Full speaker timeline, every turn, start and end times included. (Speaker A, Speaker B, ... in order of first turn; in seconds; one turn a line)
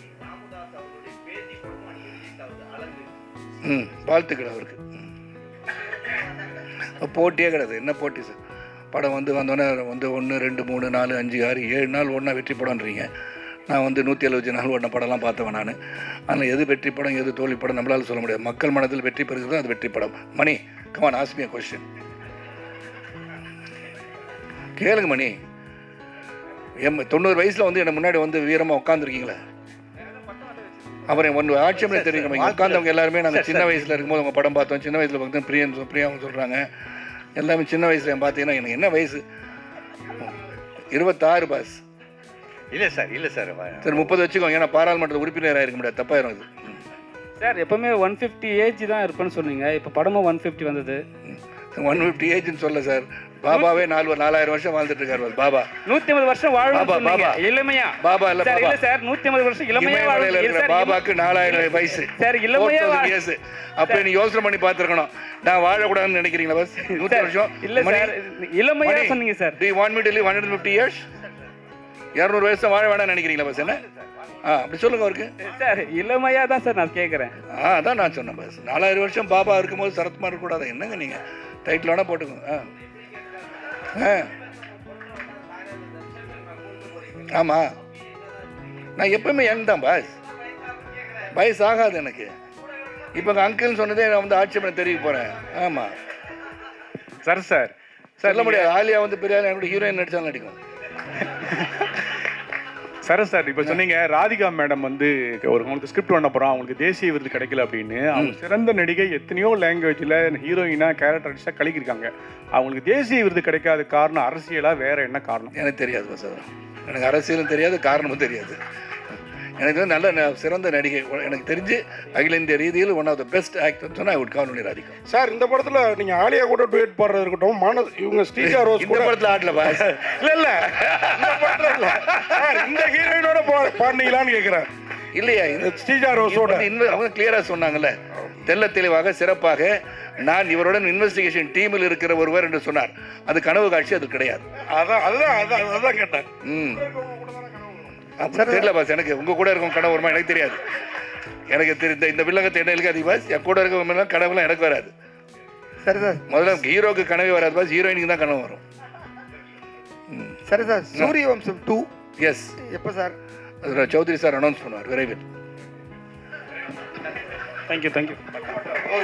Speaker A: 3.6-4.9
Speaker A: 6.9-8.4
Speaker A: 8.9-13.1
Speaker A: 13.7-15.8
Speaker A: 16.3-21.8
Speaker A: 24.8-25.4
Speaker A: 26.8-29.4
Speaker A: 31.1-36.6
Speaker A: 37.4-39.2
Speaker A: 40.9-41.8
Speaker A: 43.8-46.5
Speaker B: 47.4-51.0
Speaker A: 51.2-55.7
Speaker B: 55.9-63.2
Speaker A: 56.7-57.4
Speaker A: 58.0-58.8
Speaker A: 59.8-68.1
Speaker B: 67.0-69.6
Speaker A: 68.8-71.0
Speaker A: 72.2-73.8
Speaker A: 74.4-75.3
Speaker B: 75.4-77.3
Speaker A: 77.5-82.7
Speaker A: 83.9-84.3
Speaker A: 87.2-87.7
Speaker A: 89.0-90.2
Speaker A: 91.3-92.3
Speaker A: 93.1-95.9
Speaker C: 97.2-98.7
Speaker A: 98.2-100.6
Speaker C: 101.5-101.9
Speaker C: 103.0-115.5
Speaker A: 115.5-118.6
Speaker A: 119.6-125.0
Speaker D: 125.1-129.1
Speaker A: 128.4-129.9
Speaker D: 129.7-134.7
Speaker A: 130.9-131.1
Speaker A: 131.9-132.3
Speaker A: 135.2-137.9
Speaker D: 135.6-136.7
Speaker A: 138.4-144.4
Speaker D: 144.6-148.0
Speaker A: 146.4-146.8
Speaker A: 148.2-150.6
Speaker E: 148.3-148.7
Speaker A: 151.5-154.9
Speaker E: 155.8-156.3
Speaker A: 156.3-158.6
Speaker A: 160.1-160.4
Speaker E: 160.5-161.9
Speaker A: 162.2-162.6
Speaker E: 162.6-163.2
Speaker A: 163.6-165.2
Speaker C: 167.7-168.2